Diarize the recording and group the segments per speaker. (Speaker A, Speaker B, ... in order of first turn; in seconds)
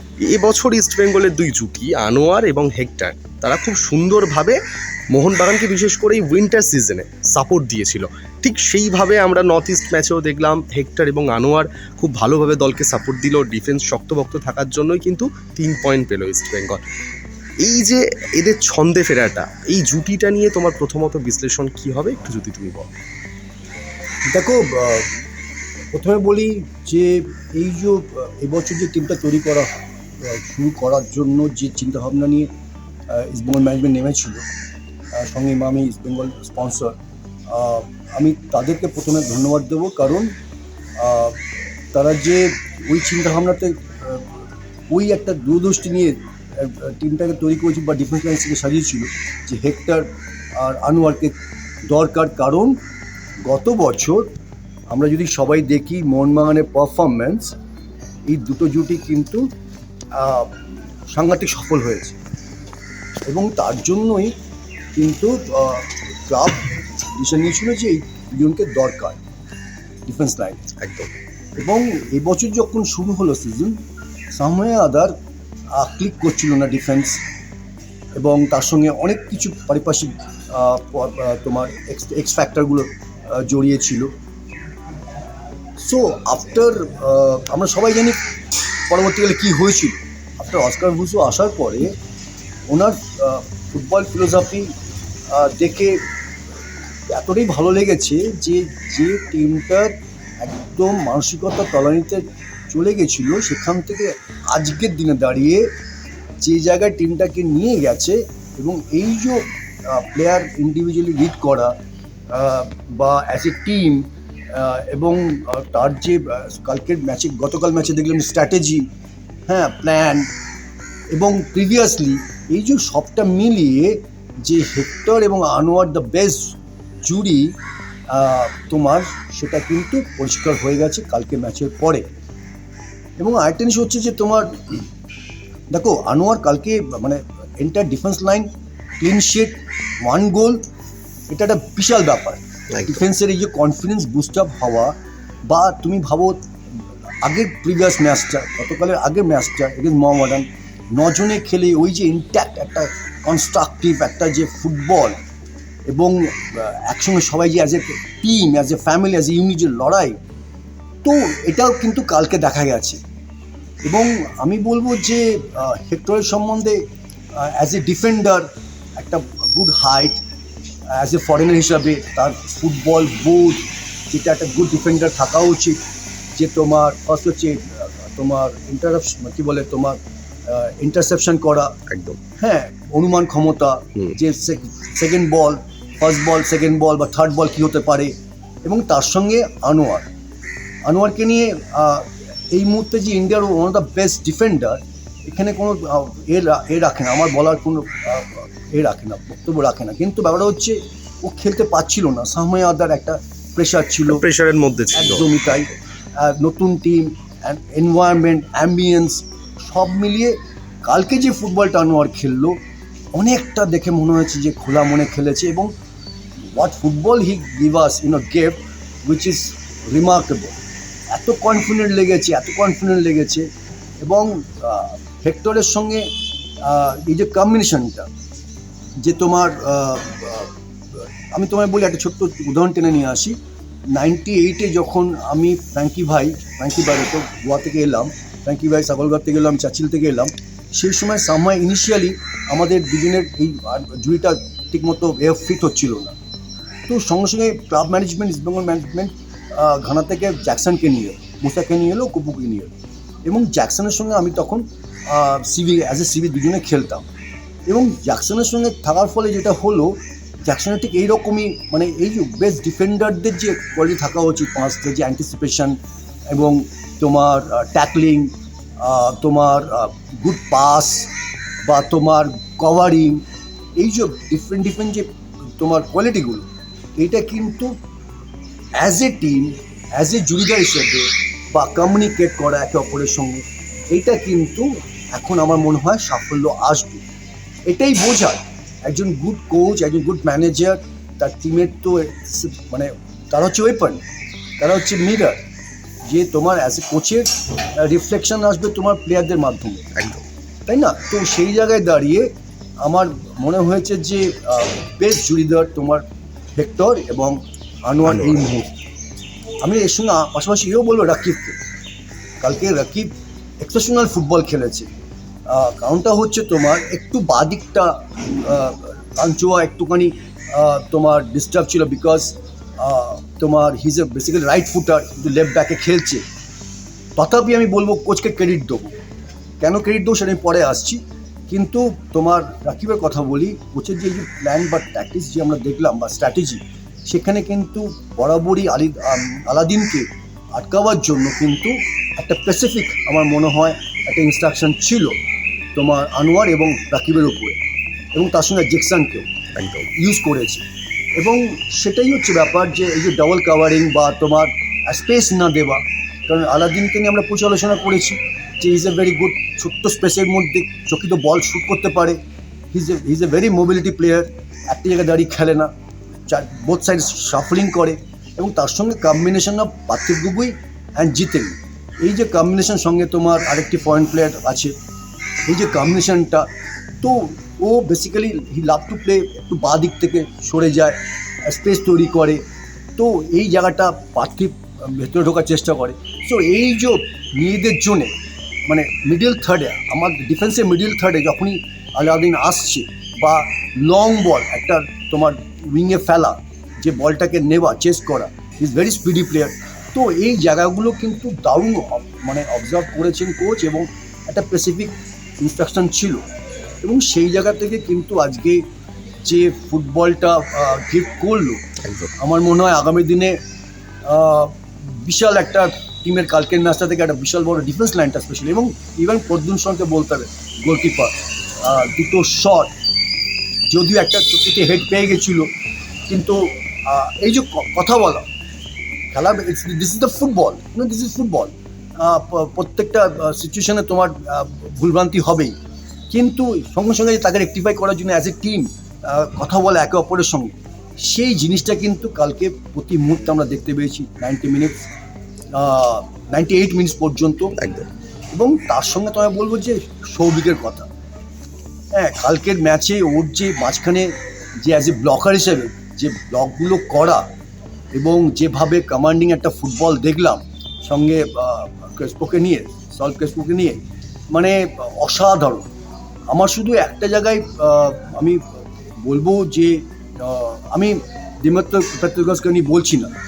Speaker A: 0.2-4.6, 5.1-16.9, 17.6-22.9, 70.8-71.1, 142.7-143.0, 181.9-182.2, 204.1-205.4, 299.9-300.2, 308.1-308.4, 349.6-349.9, 411.8-412.1, 447.6-447.9
Speaker B: 24.3-25.1, 25.9-29.7, 30.2-32.5, 33.1-34.4, 35.1-37.0, 37.5-40.3, 41.0-41.4, 41.9-51.3, 51.9-52.8, 53.4-54.3, 54.9-57.5, 58.2-59.5, 60.1-60.5, 61.1-62.2, 63.3-64.3, 64.9-69.2, 70.0-70.7, 71.6-73.8, 74.3-75.1, 75.7-77.2, 78.2-84.1, 85.8-88.2, 88.9-91.9, 92.7-94.7, 95.3-96.0, 97.1-105.6, 106.4-111.7, 112.3-118.9, 119.5-120.3, 121.1-127.5, 128.1-132.1, 133.2-134.8, 135.7-138.5, 139.0-140.6, 141.3-144.9, 145.4-146.4, 147.2-155.2, 155.9-160.2, 161.0-163.0, 163.8-166.8, 167.3-170.2, 170.9-175.8, 176.3-181.7, 182.4-188.1, 188.6-190.1, 190.8-204.2, 204.9-212.6, 213.1-215.7, 216.4-220.6, 221.1-223.4, 224.0-226.1, 226.6-228.1, 229.0-230.5, 231.3-233.3, 233.9-246.1, 246.9-252.7, 253.2-257.0, 257.7-265.8, 266.3-271.1, 271.6-273.2, 273.8-276.4, 277.0-277.7, 278.8-287.0, 287.6-294.0, 294.6-295.4, 296.1-299.9, 300.7-306.0, 306.6-308.7, 309.6-311.6, 312.4-314.9, 315.5-326.2, 327.1-328.9, 329.6-345.2, 345.7-347.6, 348.1-349.3, 349.9-350.6, 351.2-362.2, 362.7-365.7, 366.3-374.7, 375.4-376.5, 377.0-382.4, 382.9-388.1, 388.7-406.2, 406.8-408.6, 409.2-411.6, 412.2-413.4, 414.1-422.7, 423.7-425.5, 426.1-428.2, 429.1-435.5, 436.1-444.8, 445.5-447.5, 448.3-450.9, 451.9-457.2, 457.9-463.8, 464.3-465.7, 466.3-468.4, 469.0-473.1